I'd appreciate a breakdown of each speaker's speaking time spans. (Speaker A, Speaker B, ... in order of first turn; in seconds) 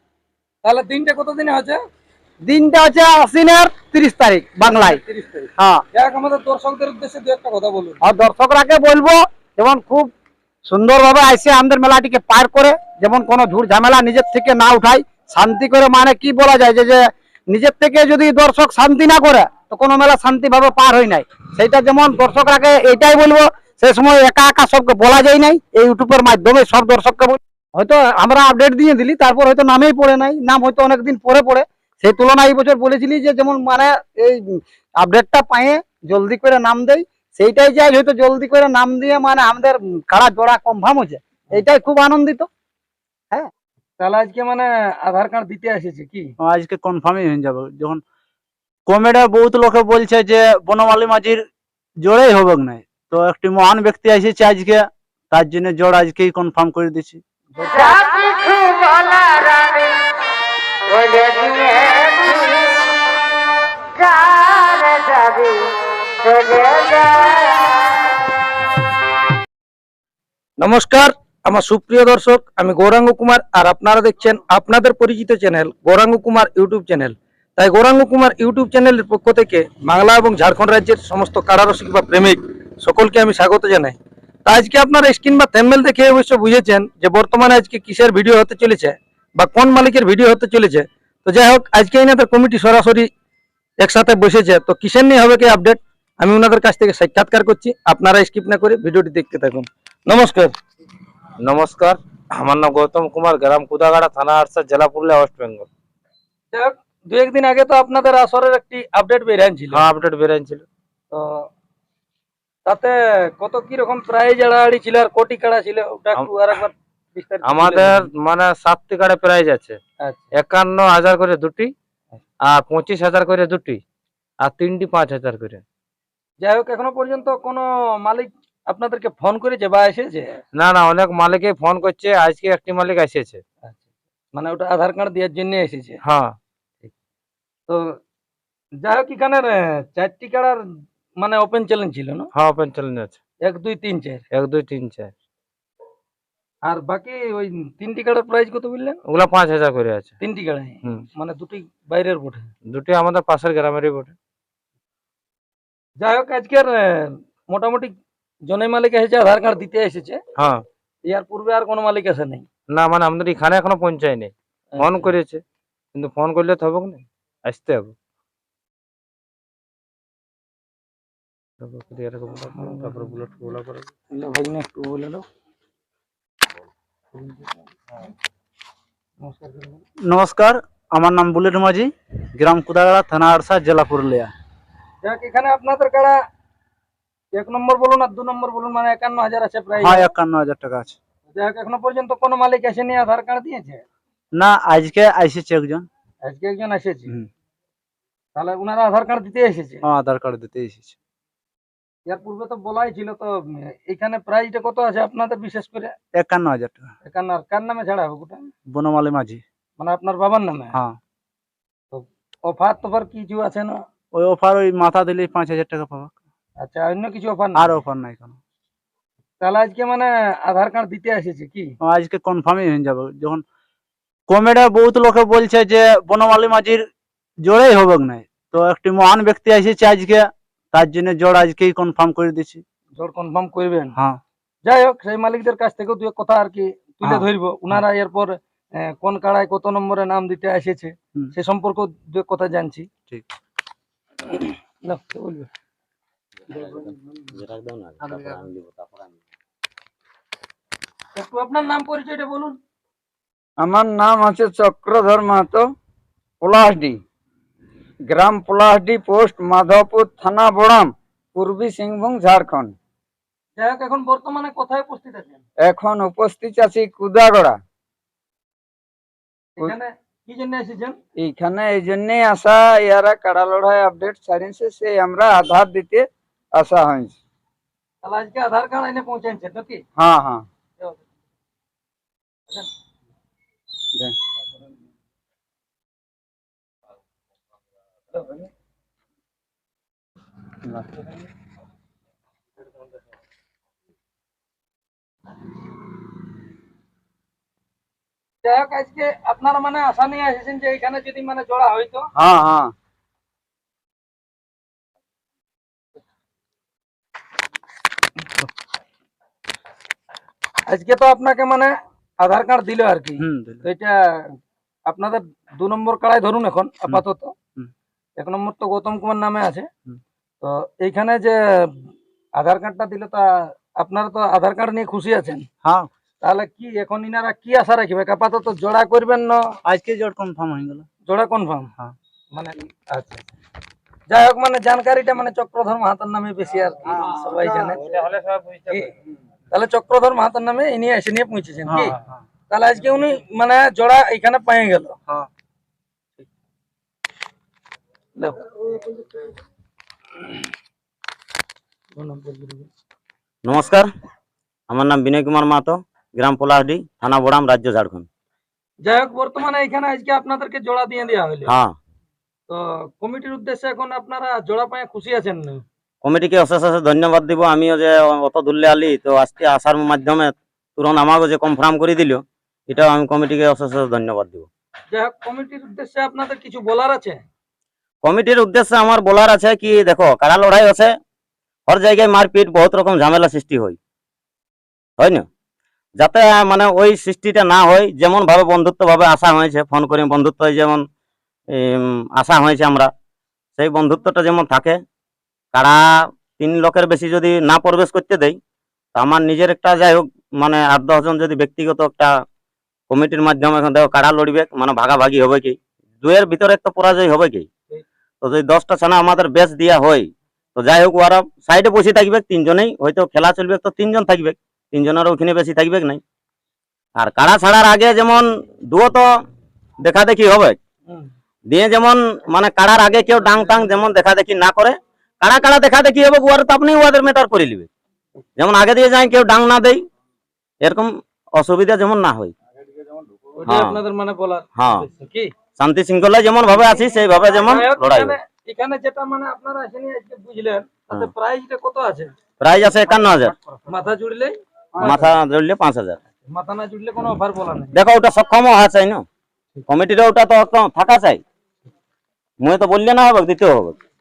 Speaker A: 0.7-1.8, 4.7-8.0, 44.0-46.3, 57.6-57.9, 70.6-93.1, 93.8-100.5, 106.5-109.9, 111.1-111.5, 112.7-118.1, 126.4-130.4, 134.3-136.0, 137.7-138.0, 138.8-140.6, 141.2-142.3, 143.4-144.2, 146.7-149.0, 150.2-152.5, 156.0-157.9, 158.5-160.2, 161.1-162.5, 164.8-165.1, 172.6-173.1, 174.1-175.2, 177.2-177.5, 179.2-179.8, 185.0-186.2, 187.3-190.1, 191.3-193.8, 196.2-197.1, 198.4-199.8, 202.1-205.9, 207.1-208.5, 209.8-210.8, 211.9-213.8, 216.6-217.7, 219.4-221.7, 233.0-233.9, 234.7-242.9, 244.3-245.5, 251.2-252.6, 263.6-265.4, 269.6-271.0, 278.0-279.8, 288.1-288.5, 298.4-302.1, 310.7-314.4, 314.9-317.4, 318.2-319.7, 320.4-325.4, 326.2-329.4, 331.1-331.7, 332.3-333.3, 334.1-337.9, 338.7-338.9, 339.5-341.9, 342.5-345.0, 348.2-349.0, 352.0-352.7, 358.9-361.5, 362.5-365.6, 374.9-377.2, 433.4-435.3, 436.5-442.1, 442.9-445.0, 446.3-447.7
Speaker B: 2.5-5.0, 5.6-5.8, 8.0-10.1, 10.7-42.5, 57.7-59.9, 60.9-62.7, 64.0-65.7, 66.2-67.6, 302.2-302.7
Speaker C: 46.4-48.0, 48.9-51.4, 52.0-57.2, 180.1-184.3, 189.8-191.0, 194.3-195.9, 199.8-200.9, 206.2-206.9, 208.7-209.4, 214.2-216.1, 217.6-218.3, 221.8-223.4, 224.3-226.9, 227.4-232.6, 313.2-313.6, 329.7-330.9, 341.7-342.2
Speaker D: 101.4-105.7, 109.7-110.7, 117.4-119.8, 120.3-121.7, 122.4-123.8, 124.4-125.6, 130.5-133.4, 136.0-136.4, 142.3-143.2, 144.3-145.1, 149.1-150.1, 152.7-154.1, 160.4-160.7, 162.7-165.4, 165.9-167.9, 171.6-173.9, 337.7-338.9
Speaker E: 246.5-249.1, 353.4-353.9, 354.7-358.1, 361.5-361.8, 366.0-374.5, 378.0-380.9, 381.7-383.8, 385.0-385.3, 386.0-390.9, 391.5-392.9, 393.6-394.8, 395.5-398.4, 398.9-402.2, 402.9-407.5, 408.2-416.0, 417.0-419.1, 419.8-420.6, 421.5-427.7, 428.4-429.9, 430.6-432.3, 433.4-433.8, 434.6-434.9, 435.6-438.1, 442.4-443.4, 444.8-446.0, 447.8-449.1, 449.7-451.2, 452.4-453.8
Speaker F: 253.6-255.7, 256.4-257.0, 258.1-262.8, 265.6-267.6, 271.2-277.2, 280.0-280.5, 444.8-445.1